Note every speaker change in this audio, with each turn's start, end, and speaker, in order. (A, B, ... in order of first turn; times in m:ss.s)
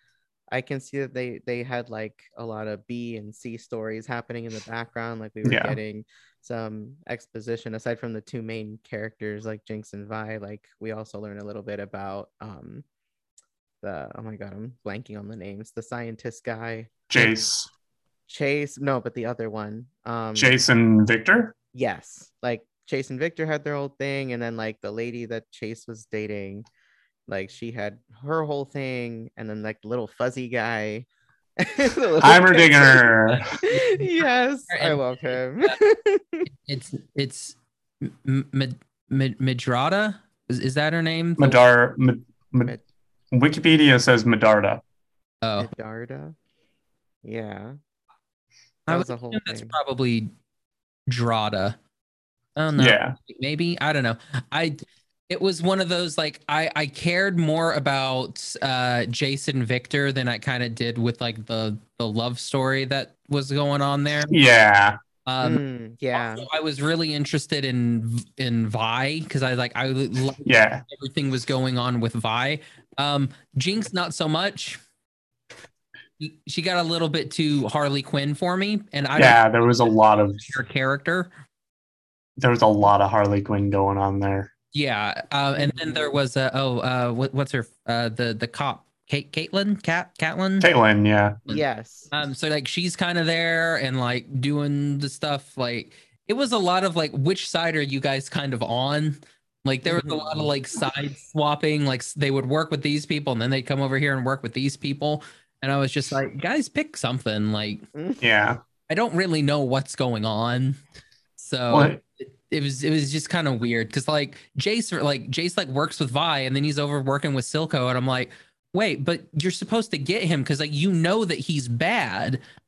0:00.5-0:12.8 A
0:05.4-0:05.8 B
0:13.8-0:17.3 A
0:17.1-0:17.7 B
0:18.3-0:20.5 A
0:20.4-0:21.5 B
0:21.7-0:26.6 A
0:27.3-0:31.1 A
0:31.6-0:36.5 A
0:32.2-0:33.4 B
0:33.3-0:35.8 C
0:36.5-0:41.6 C
0:41.4-0:42.7 B
0:43.3-0:44.8 B
0:45.4-0:45.7 C
0:45.6-0:46.4 A
0:47.2-0:47.8 A
0:48.9-0:49.7 A
0:48.9-0:50.3 C
0:51.1-0:51.8 C
0:52.6-1:04.4 C
0:52.8-0:53.1 B
1:04.3-1:05.0 B
1:05.2-1:05.6 C
1:05.4-1:06.5 A
1:06.1-1:14.8 C
1:10.4-1:10.8 B
1:16.2-1:21.3 C
1:19.2-1:20.4 B
1:22.4-1:24.5 B
1:24.7-1:30.7 C
1:25.6-1:26.1 A
1:30.6-1:31.4 B
1:31.5-1:47.8 C
1:31.5-1:32.1 A
1:39.8-1:40.5 A
1:47.9-1:48.2 A
1:48.2-1:48.6 B
1:48.9-1:50.8 C
1:51.4-2:02.4 C
1:51.7-1:52.0 B